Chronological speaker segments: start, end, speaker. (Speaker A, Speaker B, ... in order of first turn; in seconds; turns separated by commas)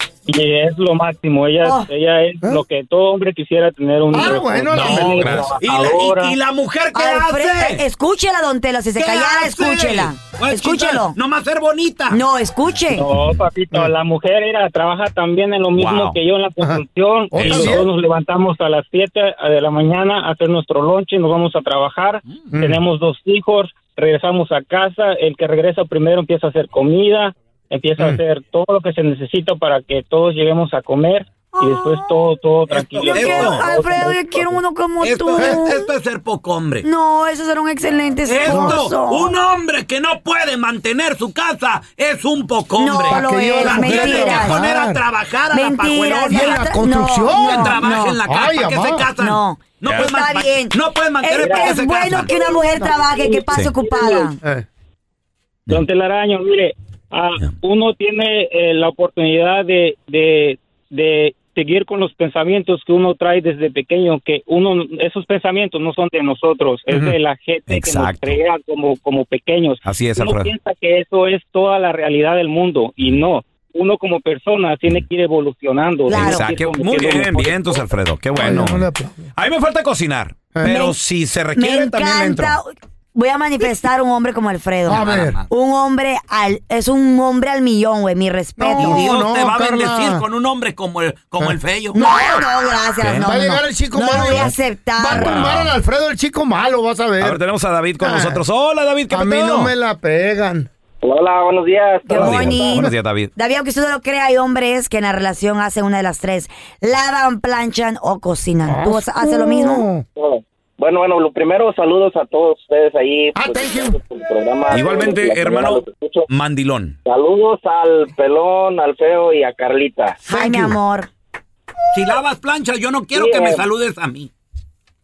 Speaker A: 0.2-6.4, Speaker B: 4.1-5.5, Speaker C: 4.7-5.5, Speaker D: 5.5-7.8, Speaker E: 6.9-11.2, Speaker D: 8.9-12.2, Speaker E: 12.1-13.1, Speaker A: 12.9-34.6, Speaker C: 15.7-16.2, Speaker B: 16.6-17.9, Speaker C: 17.3-17.8, Speaker B: 22.5-22.8, Speaker E: 31.5-32.1, Speaker E: 33.0-35.9, Speaker D: 33.0-33.7, Speaker D: 35.0-36.9, Speaker E: 36.8-39.3, Speaker D: 38.2-52.3, Speaker B: 38.5-38.8, Speaker E: 42.8-44.6, Speaker B: 43.1-45.0, Speaker E: 45.5-48.2, Speaker B: 46.2-49.1, Speaker E: 49.2-54.4, Speaker A: 51.4-51.8, Speaker B: 52.6-53.0, Speaker A: 53.2-54.3, Speaker A: 55.7-77.9, Speaker C: 67.7-68.4, Speaker C: 69.8-70.5, Speaker E: 76.1-76.4, Speaker C: 76.1-82.5, Speaker B: 78.3-79.3, Speaker E: 80.6-81.0, Speaker E: 81.5-89.0, Speaker B: 84.8-85.4, Speaker D: 85.0-85.4, Speaker B: 88.6-90.2, Speaker D: 88.8-92.1, Speaker B: 91.4-92.4, Speaker E: 91.9-95.4, Speaker C: 93.0-93.3, Speaker B: 93.1-97.4, Speaker C: 94.1-94.5, Speaker C: 95.1-95.8, Speaker C: 97.2-99.7, Speaker B: 98.0-98.4, Speaker B: 99.1-100.7, Speaker F: 101.0-102.7, Speaker E: 102.0-109.9, Speaker C: 102.2-103.3, Speaker B: 102.3-102.9, Speaker B: 108.7-110.0, Speaker F: 110.1-116.3, Speaker B: 113.3-114.0, Speaker C: 114.7-117.0, Speaker F: 117.0-120.2, Speaker E: 120.2-121.1, Speaker C: 120.3-120.7, Speaker D: 121.9-124.3, Speaker F: 123.1-123.7